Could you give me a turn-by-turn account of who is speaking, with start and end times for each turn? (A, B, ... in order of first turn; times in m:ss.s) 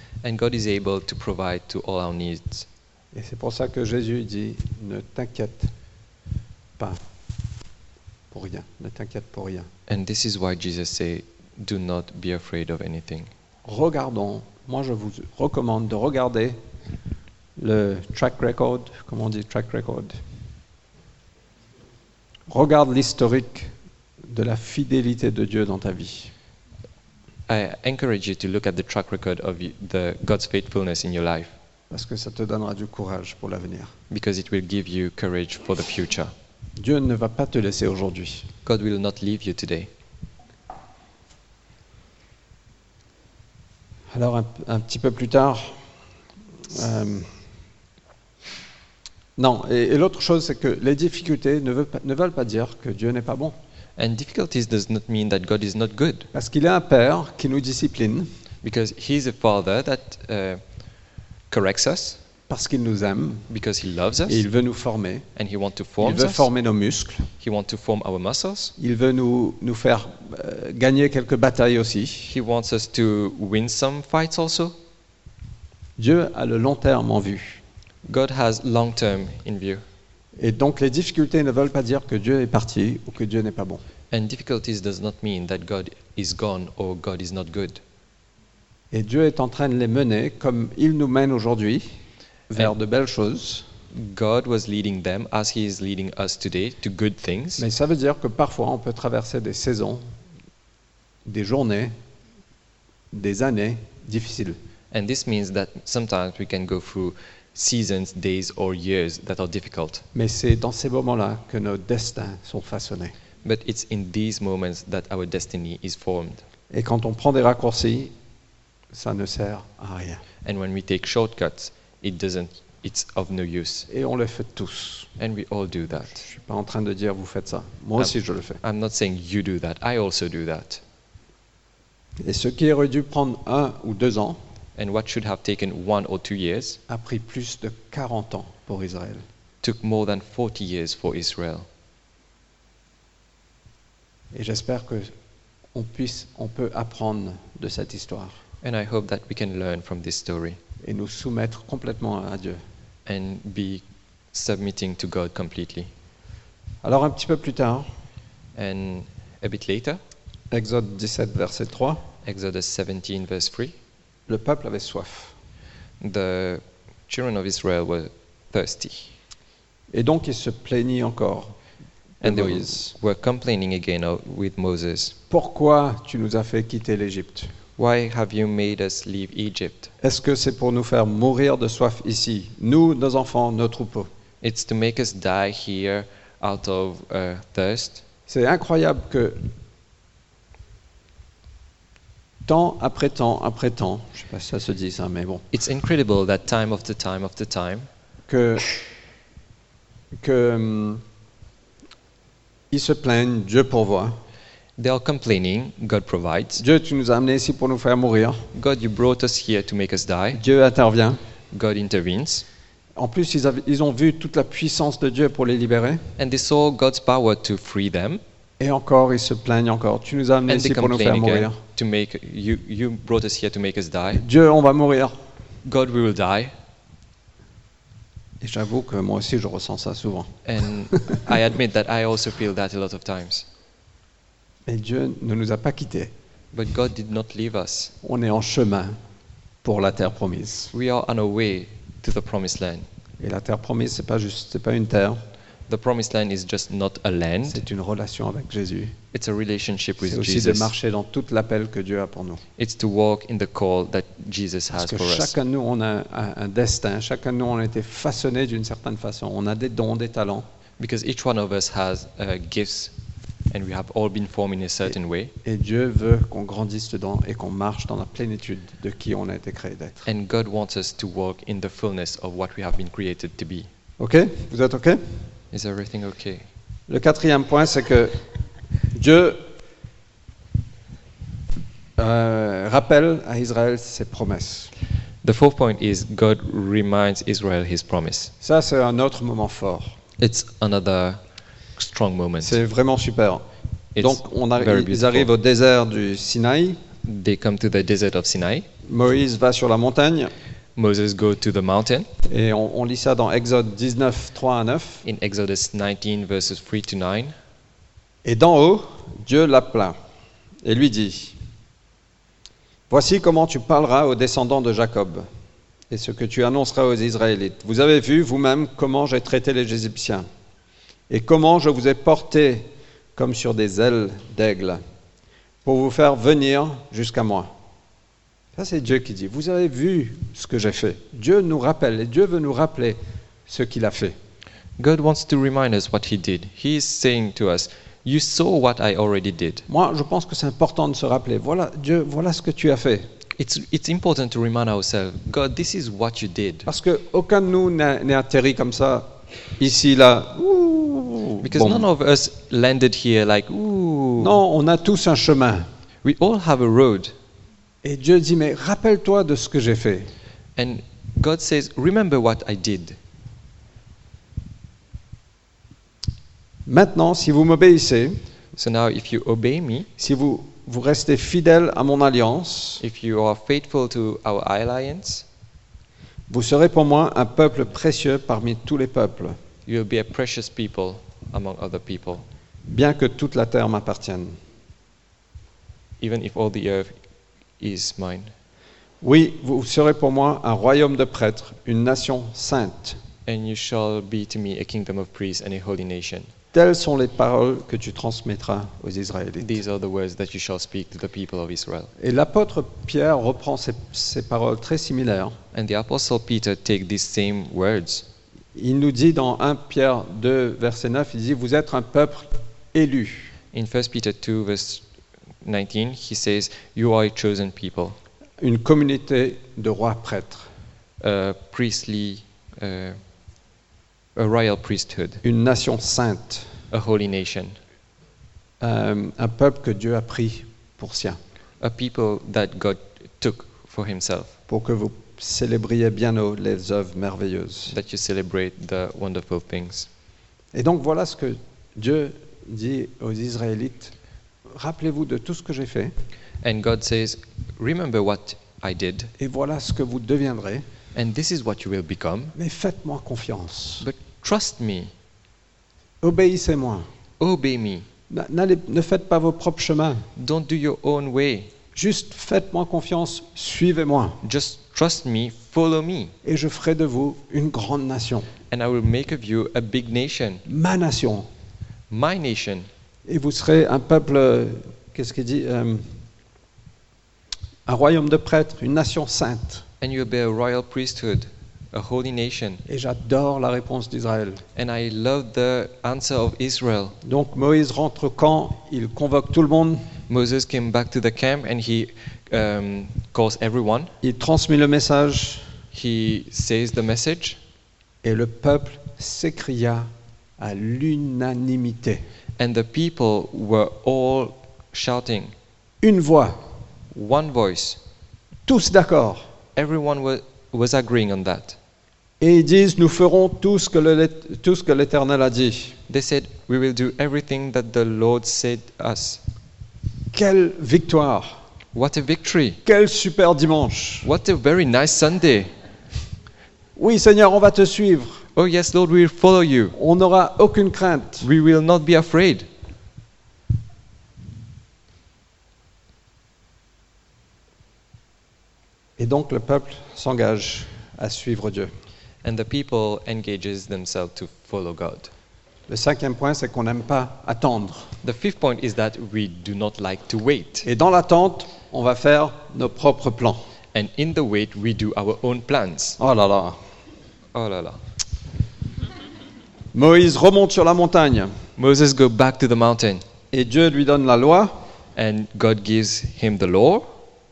0:00.2-0:02.7 A
0:03.1-0:05.7 B
0:08.3-0:09.7 B
0:09.9-0:13.3 A
0:13.6-0:16.6 B
0:17.6-0:20.2 B
0:22.5-0:23.7 B
0:24.3-0:26.3 B
0:27.5-0:31.5 A
0:31.9-0:33.9 B
0:34.1-0:36.3 A
0:36.8-0:38.5 B
0:38.6-0:39.9 A
0:44.1-0:45.8 B
0:46.7-0:47.3 B
0:49.4-0:53.6 B
0:54.0-0:56.3 A
0:56.3-0:58.3 B
0:58.6-1:00.6 A
1:01.5-1:02.2 A
1:02.5-1:03.5 B
1:03.5-1:04.4 A
1:04.3-1:05.2 B
1:05.4-1:06.5 A
1:06.0-1:07.3 B
1:07.4-1:08.7 A
1:08.8-1:12.3 B
1:12.3-1:14.7 A
1:16.0-1:17.6 B
1:18.0-1:19.8 A
1:20.4-1:23.8 B
1:24.1-1:27.8 A
1:28.9-1:31.9 B
1:32.5-1:33.7 B
1:33.9-1:37.6 A
1:37.6-1:40.0 B
1:41.3-1:41.9 B
1:43.1-1:44.6 B
1:44.9-1:50.1 A
1:50.1-1:53.1 B
1:53.4-1:56.4 A
1:56.7-1:58.1 B
1:58.9-2:00.2 B
2:00.4-2:03.9 A
2:03.9-2:05.1 B
2:05.2-2:06.2 A
2:06.2-2:08.6 B
2:08.0-2:10.8 A
2:12.2-2:14.4 B
2:14.8-2:16.8 A
2:16.9-2:19.2 B
2:19.6-2:21.7 A
2:24.3-2:25.1 B
2:25.7-2:28.4 B
2:28.6-2:30.6 A
2:30.8-2:32.6 B
2:33.1-2:35.9 A
2:36.8-2:37.9 B
2:38.6-2:40.0 A
2:40.5-2:42.0 B
2:42.2-2:43.8 A
2:44.3-2:45.3 B
2:46.0-2:49.1 A
2:49.9-2:51.6 B
2:52.2-2:52.9 B
2:52.2-2:55.2 A
2:55.3-2:57.5 B
2:57.8-2:59.9 A
3:00.0-3:04.1 B
3:04.4-3:08.0 A
3:08.3-3:09.5 B
3:12.5-3:15.4 B
3:15.5-3:17.9 A
3:18.3-3:18.7 B
3:20.2-3:21.0 B
3:22.7-3:24.2 B
3:24.8-3:26.6 A
3:26.6-3:28.4 B
3:28.5-3:30.4 A
3:30.4-3:31.2 B
3:31.5-3:32.4 A
3:33.0-3:36.0 B
3:36.2-3:38.2 A
3:38.6-3:41.6 B
3:40.5-3:44.2 A
3:44.2-3:45.1 B
3:45.6-3:46.5 A
3:48.4-3:50.3 B
3:50.4-3:53.5 A
3:54.7-3:56.1 B
3:56.5-3:57.9 A
3:58.0-3:59.0 B
3:59.6-4:00.7 B
4:00.7-4:02.9 A
4:03.2-4:05.2 B
4:05.7-4:07.6 A
4:07.5-4:09.0 B
4:09.1-4:10.7 A
4:10.0-4:12.4 B
4:12.6-4:15.3 A
4:14.7-4:20.5 B
4:20.8-4:22.9 A
4:23.5-4:25.3 A
4:25.4-4:30.1 B
4:30.1-4:33.7 A
4:34.0-4:35.2 B
4:35.5-4:36.5 A
4:36.9-4:38.2 B
4:39.0-4:39.4 B
4:42.0-4:44.7 B
4:45.2-4:48.3 A
4:48.4-4:50.0 B
4:50.2-4:51.2 A
4:51.8-4:52.6 A
4:52.4-4:53.4 B
4:54.0-4:55.3 A
4:54.0-4:56.8 B
4:57.0-4:58.7 A
4:58.9-5:00.3 B
5:00.8-5:02.1 A
5:02.2-5:05.0 B
5:05.0-5:07.3 A
5:08.2-5:10.0 B
5:10.6-5:11.4 B
5:12.9-5:15.3 B
5:15.9-5:20.3 B
5:21.1-5:24.8 B
5:25.6-5:27.5 B
5:28.6-5:34.2 B
5:34.8-5:39.7 A
5:39.7-5:43.1 B
5:43.4-5:46.7 A
5:46.7-5:51.9 B
5:51.4-5:54.4 A
5:54.2-5:55.7 B
5:56.0-5:57.1 A
5:57.8-6:00.1 B
6:00.6-6:03.0 A
6:06.7-6:08.2 B
6:08.6-6:09.9 A
6:10.0-6:12.8 B
6:12.8-6:15.2 A
6:16.3-6:19.4 B
6:19.7-6:22.2 A
6:22.7-6:24.4 B
6:26.0-6:26.9 A
6:27.6-6:28.3 A
6:29.0-6:33.0 B
6:33.3-6:36.3 A
6:36.5-6:39.6 B
6:39.4-6:41.9 A
6:42.0-6:45.4 B
6:45.5-6:48.1 A
6:48.6-6:53.3 B
6:53.5-6:54.8 A
6:55.4-6:58.0 A
6:58.4-7:00.5 B
7:01.0-7:03.0 A
7:04.2-7:05.2 A
7:05.2-7:06.5 B
7:06.7-7:07.6 A
7:08.6-7:11.2 B
7:11.6-7:14.3 A
7:14.5-7:17.8 B
7:17.7-7:19.9 A
7:20.5-7:23.9 B
7:24.5-7:25.9 B
7:26.4-7:29.1 A
7:29.2-7:30.6 B
7:30.9-7:32.3 A
7:32.4-7:33.9 B
7:33.8-7:34.9 A
7:36.0-7:36.9 B
7:37.2-7:37.9 A
7:38.1-7:40.1 B
7:40.2-7:41.5 A
7:41.8-7:44.2 B
7:44.2-7:46.2 A
7:46.2-7:48.3 B
7:48.5-7:50.4 A
7:50.5-7:51.3 B
7:51.9-7:52.7 A
7:53.1-7:55.9 B
7:57.7-7:59.6 B
7:59.8-8:02.6 A
8:02.7-8:04.4 B
8:04.6-8:07.0 A
8:07.0-8:09.9 B
8:10.1-8:13.9 A
8:14.0-8:15.4 B
8:15.7-8:17.4 A
8:18.0-8:22.0 B
8:22.4-8:25.3 A
8:25.8-8:26.4 B
8:26.9-8:27.8 A
8:28.5-8:29.3 B
8:29.6-8:31.6 A
8:32.2-8:35.8 B
8:35.9-8:39.2 A
8:40.1-8:41.4 B
8:41.7-8:42.6 A
8:42.6-8:44.1 B
8:44.0-8:45.5 A
8:46.8-8:48.2 B
8:48.4-8:49.8 A
8:49.8-8:51.3 B
8:51.2-8:52.5 A
8:59.0-9:01.7 B
9:02.2-9:05.1 A
9:05.7-9:07.9 B
9:08.0-9:10.7 A
9:10.6-9:13.4 B
9:13.7-9:16.0 A
9:16.0-9:16.6 B
9:17.3-9:17.8 A
9:19.7-9:21.3 B
9:21.6-9:23.0 A
9:23.3-9:24.6 B
9:25.0-9:26.8 A